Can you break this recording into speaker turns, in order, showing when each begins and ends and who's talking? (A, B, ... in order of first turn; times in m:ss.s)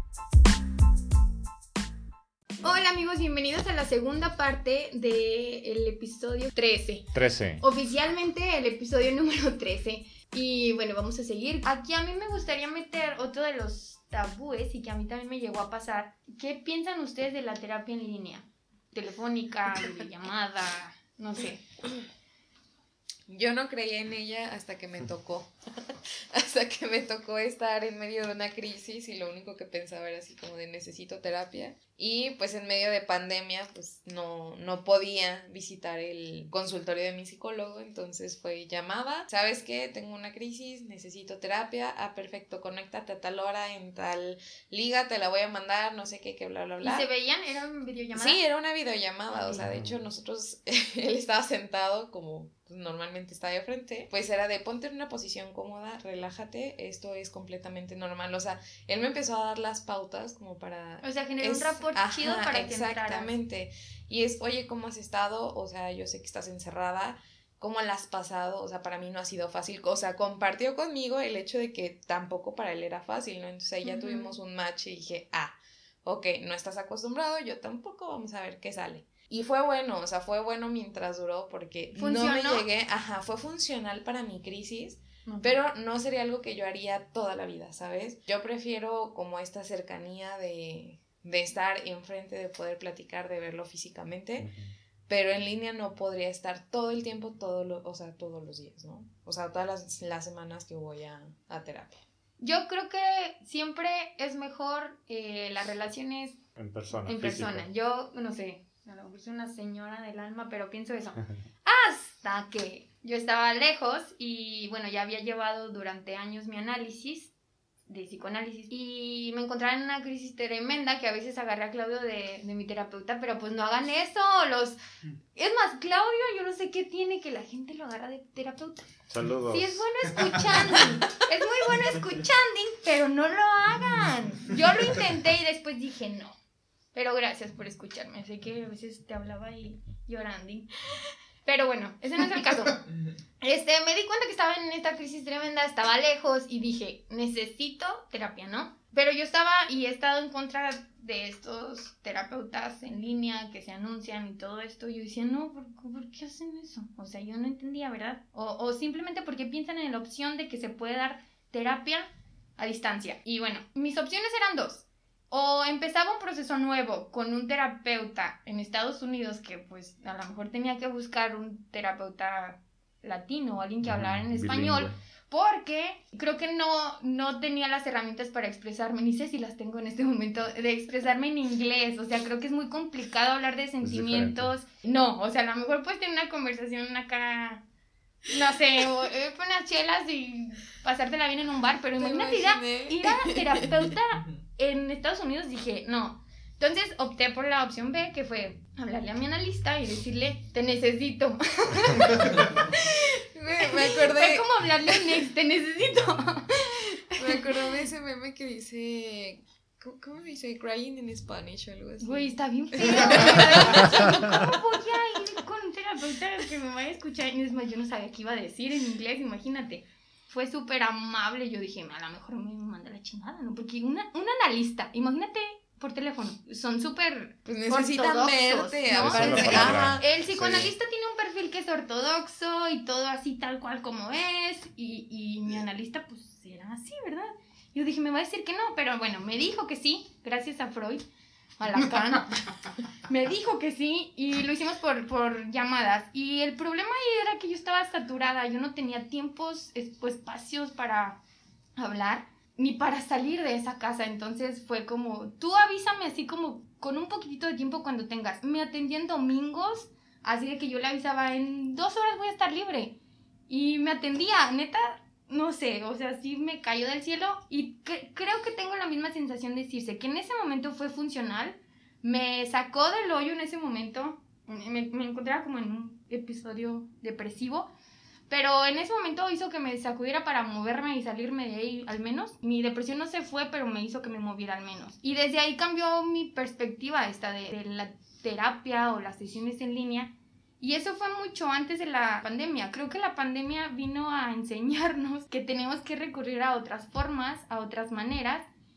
0:02.6-0:21.6 A
0:07.1-0:07.6 B
0:23.3-0:47.1 C
0:46.8-0:48.4 A
0:48.2-1:34.5 C
0:49.3-0:49.6 A
0:49.6-0:49.9 B
1:01.0-1:03.3 A
1:13.8-1:14.3 A
1:22.0-1:22.7 A
1:25.3-1:25.5 A
1:34.4-1:34.7 B
1:35.1-1:42.0 C
1:42.4-1:46.4 A
1:46.6-1:47.7 B
1:47.0-1:57.3 A
1:57.9-2:04.8 A
2:05.4-2:08.9 A
2:09.1-2:09.8 B
2:09.5-2:16.4 A
2:16.9-2:20.7 A
2:21.4-2:22.8 A
2:23.4-3:07.6 A
2:53.8-2:55.0 B
3:03.8-3:04.5 B
3:08.3-3:27.6 A
3:12.0-3:13.6 C
3:23.3-3:25.2 C
3:27.2-3:34.5 C
3:32.0-4:01.0 A
3:47.5-3:50.0 C
3:48.9-3:50.7 B
4:01.6-4:02.4 A
4:03.1-4:11.2 A
4:11.8-4:23.0 A
4:23.5-4:37.7 A
4:38.3-4:58.5 A